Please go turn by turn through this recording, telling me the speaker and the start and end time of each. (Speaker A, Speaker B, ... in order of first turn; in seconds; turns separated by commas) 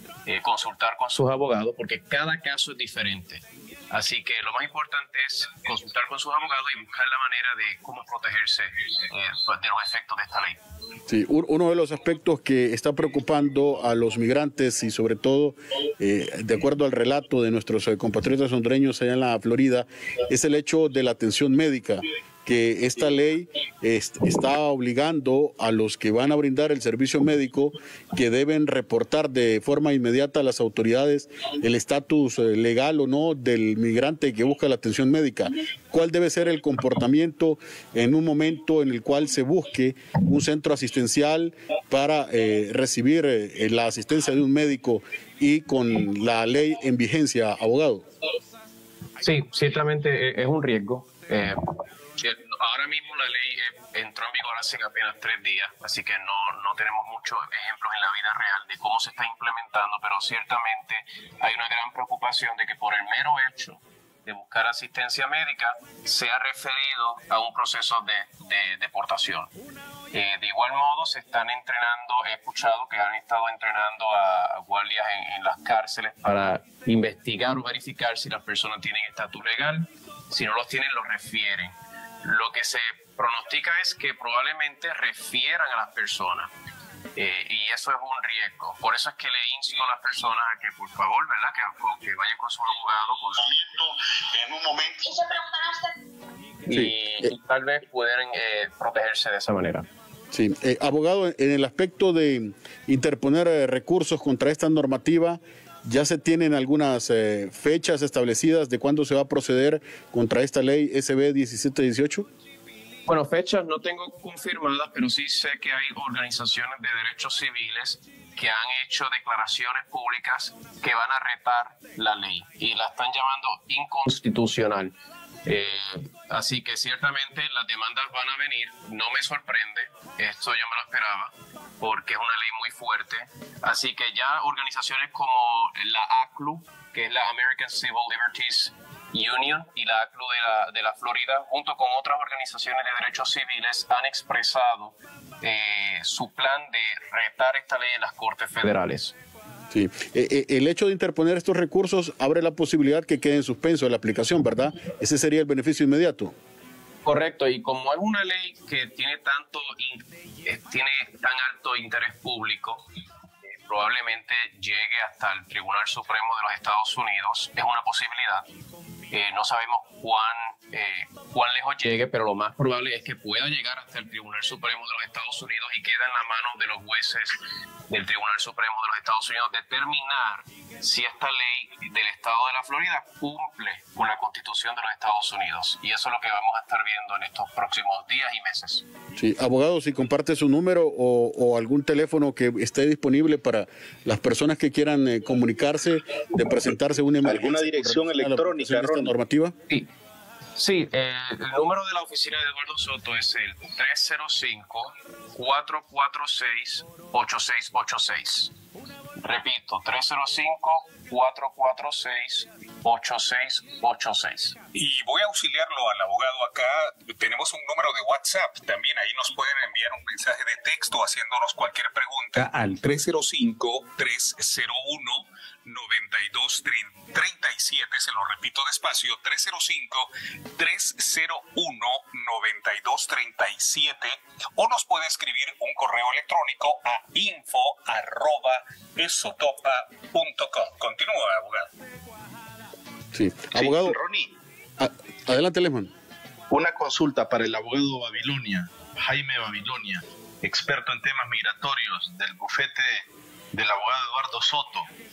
Speaker A: 0.2-10.6, Speaker B: 11.1-48.1, Speaker A: 49.2-51.6, Speaker A: 52.2-69.5, Speaker A: 70.1-86.5, Speaker A: 87.2-93.6, Speaker B: 93.5-95.8, Speaker A: 96.7-99.9, Speaker B: 96.7-97.2, Speaker B: 100.3-112.3, Speaker A: 113.1-124.9, Speaker A: 125.5-149.1, Speaker B: 149.7-156.3, Speaker A: 157.0-162.8, Speaker A: 163.5-168.4, Speaker A: 169.1-177.4, Speaker A: 177.9-188.8, Speaker B: 189.2-199.5, Speaker C: 197.2-199.1, Speaker A: 200.6-208.5, Speaker A: 209.2-214.6, Speaker D: 214.7-241.7, Speaker B: 243.1-244.0, Speaker C: 243.6-244.3, Speaker B: 244.8-245.9, Speaker C: 246.5-254.9